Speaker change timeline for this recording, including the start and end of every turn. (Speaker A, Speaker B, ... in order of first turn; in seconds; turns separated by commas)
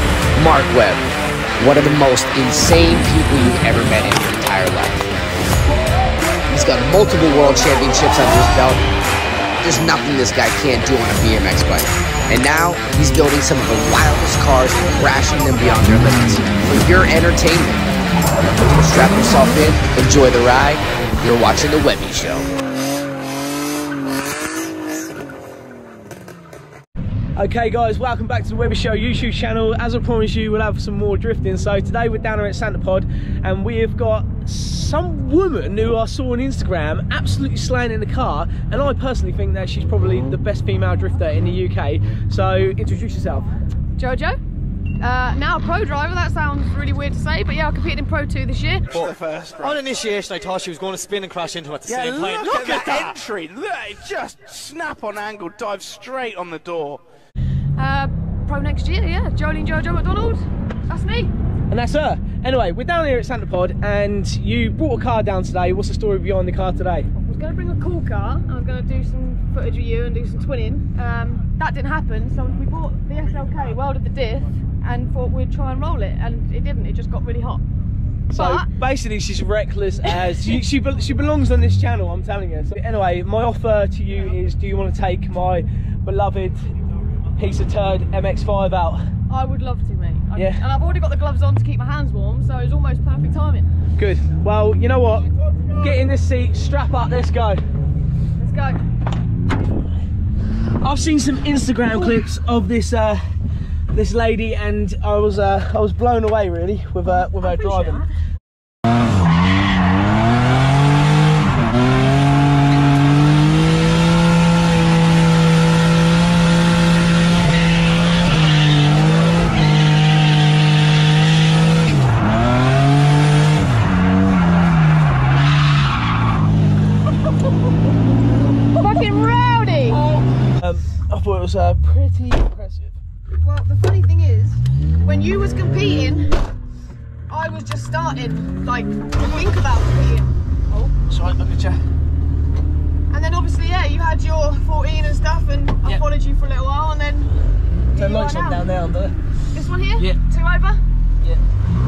Speaker A: 0.3-1.1, Speaker A: 1.6-5.1, Speaker A: 6.5-8.8, Speaker A: 9.6-17.8, Speaker A: 18.6-22.5, Speaker B: 27.4-43.5, Speaker C: 44.0-44.4, Speaker C: 45.0-48.9, Speaker D: 48.9-49.9, Speaker E: 48.9-53.2, Speaker D: 51.8-57.0, Speaker C: 57.8-61.3, Speaker B: 61.7-67.1, Speaker C: 67.1-77.6, Speaker B: 78.3-86.7, Speaker C: 78.3-78.7, Speaker B: 87.3-89.0, Speaker C: 89.3-93.7, Speaker B: 90.3-90.6, Speaker B: 94.0-97.6, Speaker C: 98.4-98.8, Speaker B: 100.8-103.2, Speaker B: 103.9-108.0, Speaker C: 107.3-108.0, Speaker C: 128.7-130.0, Speaker B: 129.9-132.9, Speaker C: 133.4-136.4, Speaker C: 137.3-140.9, Speaker B: 141.1-141.8, Speaker C: 143.1-147.3, Speaker C: 147.9-148.6, Speaker B: 147.9-149.1, Speaker C: 149.5-150.8